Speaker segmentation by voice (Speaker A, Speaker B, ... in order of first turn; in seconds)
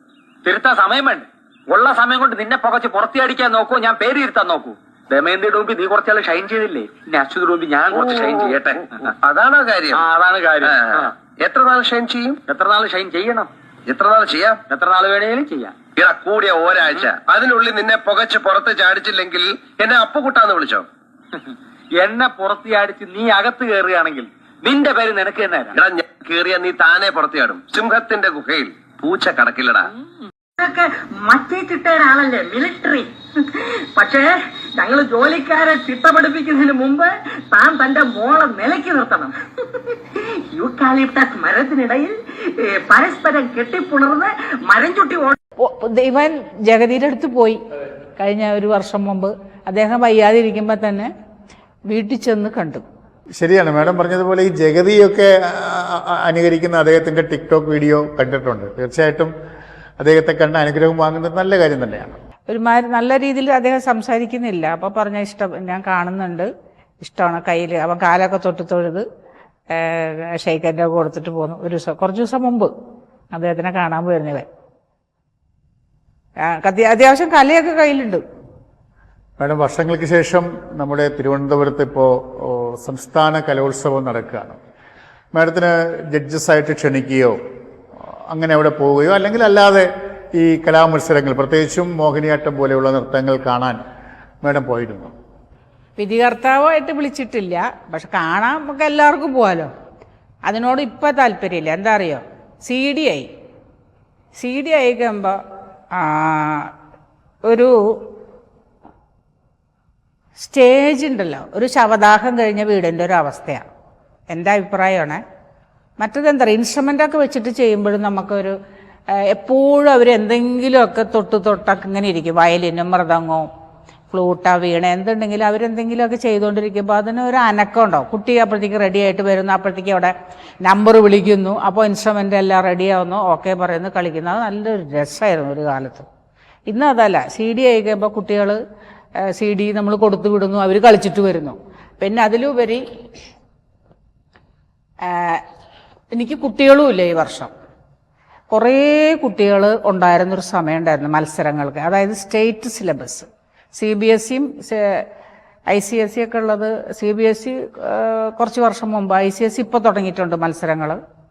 Speaker A: 0.4-9.1, 9.9-11.1, 12.5-13.5, 14.7-15.7, 22.0-25.7
Speaker B: 7.9-10.0, 10.6-12.4, 13.9-14.6, 16.0-20.9, 25.7-29.9
Speaker C: 30.6-45.4
Speaker D: 45.6-47.6, 48.2-51.1, 51.9-52.8, 62.5-66.5, 67.0-69.0, 69.7-72.7, 73.3-74.5, 76.4-78.2, 96.0-99.7, 100.5-103.3, 104.3-105.4, 105.9-106.7, 107.5-108.0, 110.4-113.6, 114.3-115.2, 116.0-118.5, 119.1-123.5, 124.1-130.1, 130.6-136.1, 136.7-138.6, 139.2-142.8, 145.0-145.4, 146.1-147.5, 148.5-155.0, 155.7-161.0
Speaker E: 53.3-59.3, 60.0-62.2, 79.4-84.6, 85.3-87.4, 88.3-93.8, 94.4-95.1